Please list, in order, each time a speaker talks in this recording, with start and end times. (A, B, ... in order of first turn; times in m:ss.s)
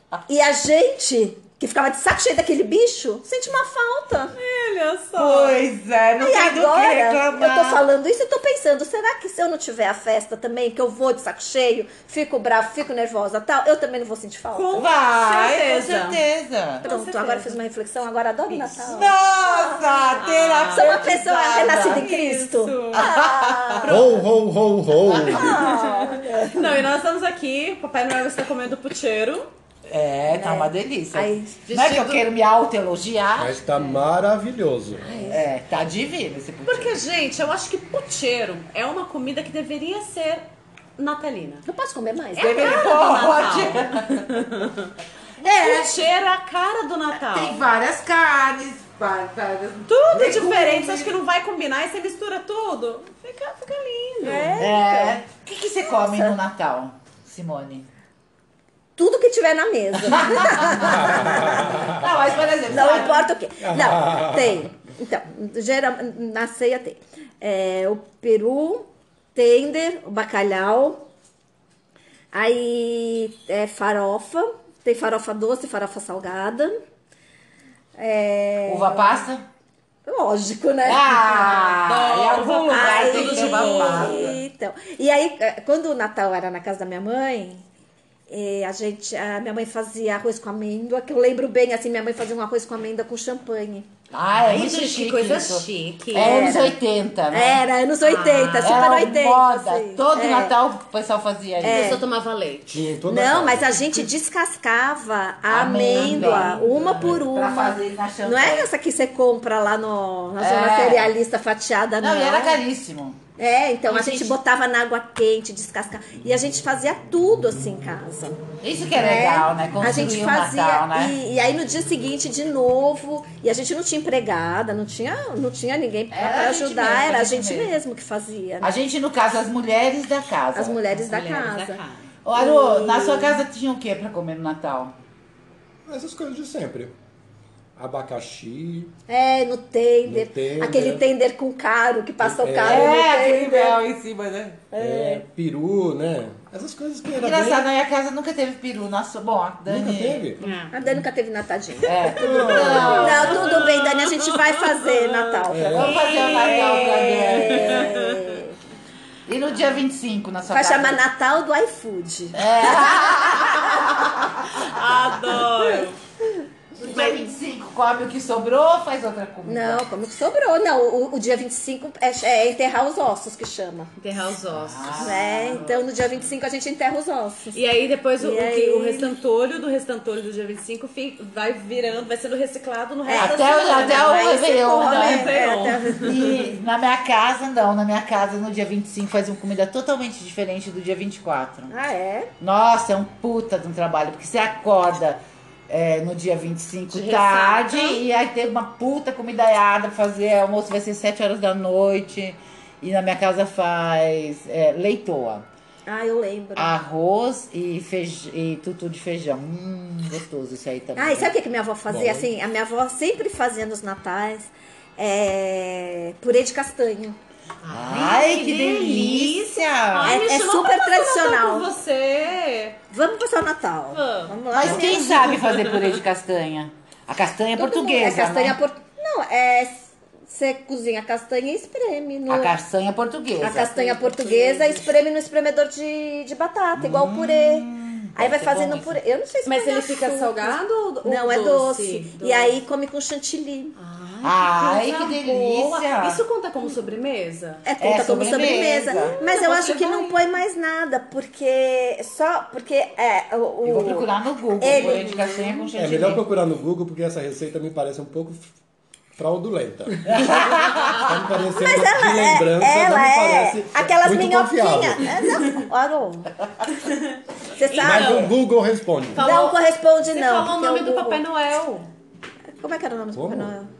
0:00.3-0:04.3 A
0:04.3-0:05.6 B
0:05.2-0:07.8 C
0:06.2-0:14.7 A
0:14.5-0:16.2 B
0:14.7-0:16.8 C
0:16.8-0:17.5 B
0:16.8-0:20.1 A
0:18.5-0:19.0 B
0:18.8-0:22.1 C
0:20.2-0:23.1 B
0:20.7-0:23.9 A
0:22.9-0:23.9 C
0:23.8-0:24.2 B
0:23.9-0:25.6 D
0:25.1-0:25.5 C
0:25.2-0:29.5 B
0:25.2-0:26.8 A
0:29.9-0:33.6 C
0:30.3-0:31.6 A
0:31.7-0:32.2 B
0:33.4-0:35.2 D
0:35.0-0:35.4 A
0:35.2-0:37.0 C
0:36.7-0:40.4 B
0:41.0-0:41.6 B
0:41.6-0:42.9 A
0:42.4-0:44.4 C
0:42.4-0:47.6 B
0:45.4-0:46.0 C
0:47.2-0:51.2 C
0:49.9-0:54.5 B
0:54.2-0:55.2 A
0:54.6-0:57.8 C
0:56.0-0:56.3 A
0:59.0-1:01.6 A
1:00.1-1:03.2 C
1:00.8-1:02.0 D
1:02.7-1:11.0 A
1:03.6-1:04.6 D
1:12.3-1:16.8 A
1:18.0-1:19.1 A
1:18.6-1:19.4 C
1:20.0-1:21.3 A
1:20.8-1:24.4 C
1:21.2-1:24.3 B
1:22.7-1:27.6 A
1:28.3-1:33.9 A
1:34.1-1:37.6 C
1:34.4-1:36.7 B
1:36.2-1:36.8 A
1:37.3-1:40.6 A
1:38.0-1:39.0 B
1:38.6-1:42.0 C
1:41.6-1:42.0 A
1:41.6-1:42.8 B
1:42.7-1:44.0 D
1:43.0-1:52.6 A
1:45.5-1:48.7 C
1:45.9-1:46.7 B
1:50.4-1:51.1 C
1:52.0-1:53.2 C
1:53.4-1:58.4 A
1:53.9-1:54.3 C
1:58.6-2:01.2 C
1:58.9-2:08.7 A
2:06.1-2:07.8 C
2:08.6-2:10.8 C
2:10.5-2:11.8 A
2:10.9-2:12.0 B
2:12.2-2:14.9 C
2:12.4-2:13.4 A
2:15.9-2:16.9 D
2:17.8-2:18.9 D
2:19.1-2:23.8 A
2:20.0-2:21.0 D
2:22.2-2:22.9 D
2:22.6-2:24.7 C
2:24.7-2:25.2 A
2:24.8-2:27.7 D
2:27.2-2:30.3 C
2:29.7-2:30.5 D
2:30.4-2:30.7 B
2:30.7-2:38.6 A
2:31.8-2:33.6 C
2:32.0-2:38.4 B
2:32.2-2:33.4 D
2:35.5-2:36.1 D
2:35.6-2:38.0 C
2:39.3-2:41.0 C
2:40.5-2:44.1 A
2:42.3-2:44.7 C
2:44.4-2:46.0 B
2:45.6-2:45.8 A
2:46.8-2:47.3 A
2:46.8-2:49.8 C
2:49.4-2:53.9 A
2:54.0-2:55.9 B
2:54.5-2:55.6 C
2:55.0-2:57.6 A
2:57.5-3:06.4 B
2:58.2-2:59.1 A
3:03.0-3:06.3 A
3:03.1-3:05.3 C
3:06.0-3:11.7 C
3:11.7-3:12.3 A
3:12.4-3:25.4 C
3:16.9-3:18.0 B
3:25.9-3:26.8 A
3:26.6-3:31.3 C
3:31.0-3:37.2 A
3:31.9-3:32.3 D
3:37.6-3:42.8 B
3:37.7-3:40.2 C
3:40.0-3:41.7 A
3:42.9-3:45.2 A
3:43.9-3:46.0 B
3:44.5-3:48.6 C
3:47.6-3:52.5 A
3:52.3-3:53.8 C
3:53.4-4:03.7 A
3:53.8-3:55.0 B
3:56.8-3:59.0 C
3:59.4-4:02.6 B
4:03.8-4:07.6 B
4:04.2-4:06.2 C
4:07.6-4:14.1 A
4:07.8-4:09.2 C
4:08.9-4:10.2 B
4:13.6-4:16.2 C
4:14.6-4:15.0 A
4:14.7-4:15.7 B
4:15.8-4:18.5 D
4:19.2-4:25.4 D
4:20.0-4:21.1 C
4:21.5-4:26.3 A
4:27.6-4:28.3 A
4:27.6-4:28.3 B
4:27.8-4:29.2 D
4:29.1-4:29.6 B
4:29.2-4:31.2 A
4:30.1-4:31.9 B
4:32.6-4:33.7 A
4:33.1-4:33.5 D